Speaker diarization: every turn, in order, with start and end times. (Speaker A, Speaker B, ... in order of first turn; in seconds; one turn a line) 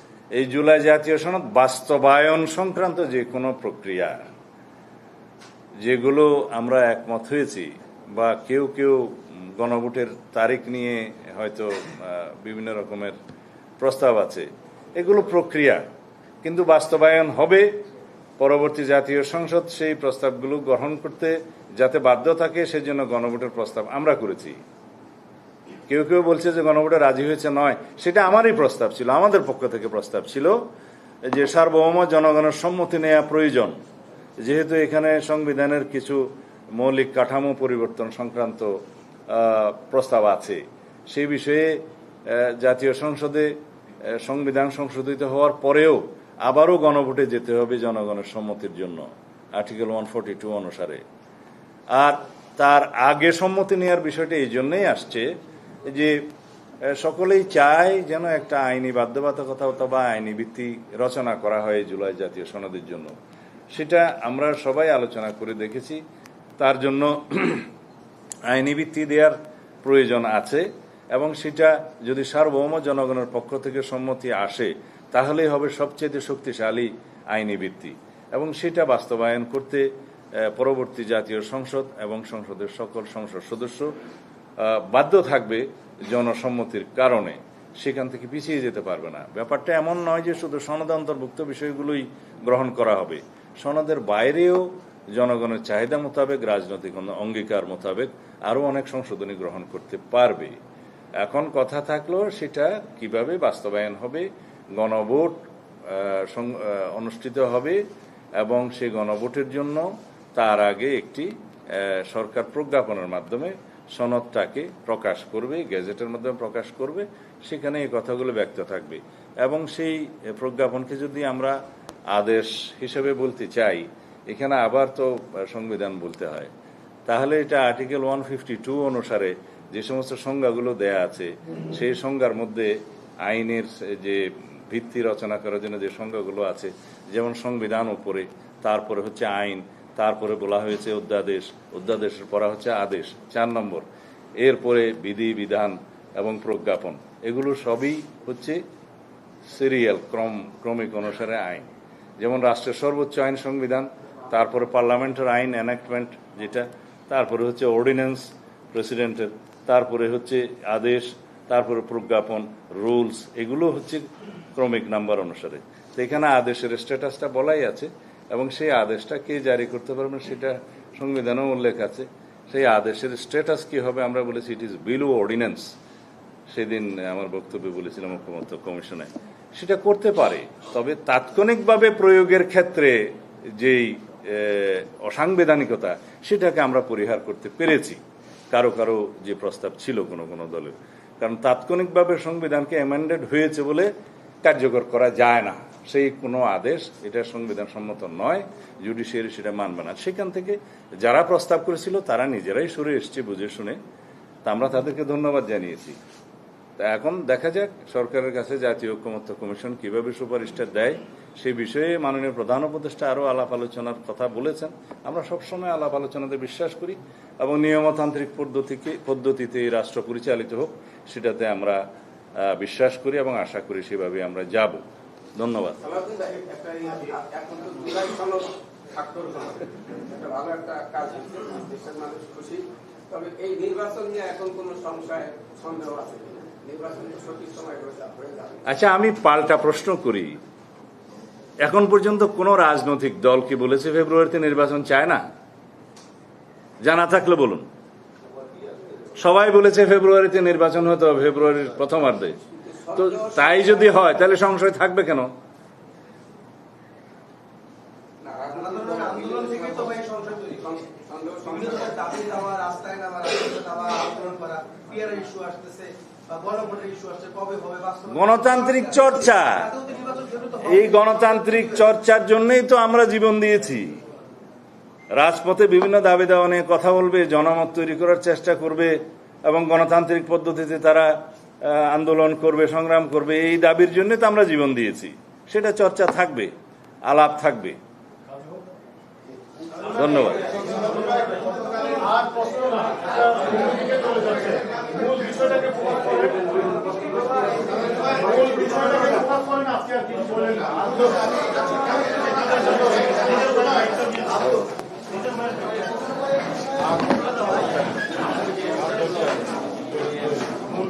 Speaker A: 0.3-4.2
Speaker A: 5.8-13.2
Speaker A: 13.8-15.8
Speaker A: 16.4-17.8
Speaker A: 18.4-24.6
Speaker A: 25.9-30.6
Speaker A: 31.2-33.8
Speaker A: 34.4-43.5
Speaker A: 44.1-51.0
Speaker A: 51.9-55.3
Speaker A: 55.8-56.3
Speaker A: 56.8-63.1
Speaker A: 63.7-66.0
Speaker A: 66.6-67.7
Speaker A: 68.5-83.9
Speaker A: 84.6-100.6
Speaker A: 101.2-107.8
Speaker A: 108.4-121.6
Speaker A: 122.1-126.5
Speaker A: 127.1-143.8
Speaker A: 144.4-148.6
Speaker A: 149.4-175.7
Speaker A: 176.5-188.0
Speaker A: 188.5-193.9
Speaker A: 194.4-203.8
Speaker A: 204.4-206.0
Speaker A: 206.8-221.8
Speaker A: 222.4-224.8
Speaker A: 225.4-225.8
Speaker B: 225.8-238.6
Speaker A: 238.7-240.4
Speaker A: 241.6-245.2
Speaker A: 246.8-247.7
Speaker A: 249.2-252.4
Speaker B: 252.5-254.1
Speaker A: 252.9-255.3
Speaker B: 258.2-262.3
Speaker C: 258.5-260.4
Speaker C: 261.5-268.5
Speaker A: 268.1-269.7
Speaker B: 269.8-270.6
Speaker C: 269.8-270.4
Speaker A: 270.6-274.0
Speaker A: 275.1-286.5
Speaker A: 287.1-287.8
Speaker A: 289.9-290.5
Speaker D: 290.5-304.6
Speaker D: 308.8-309.3
Speaker D: 310.1-310.7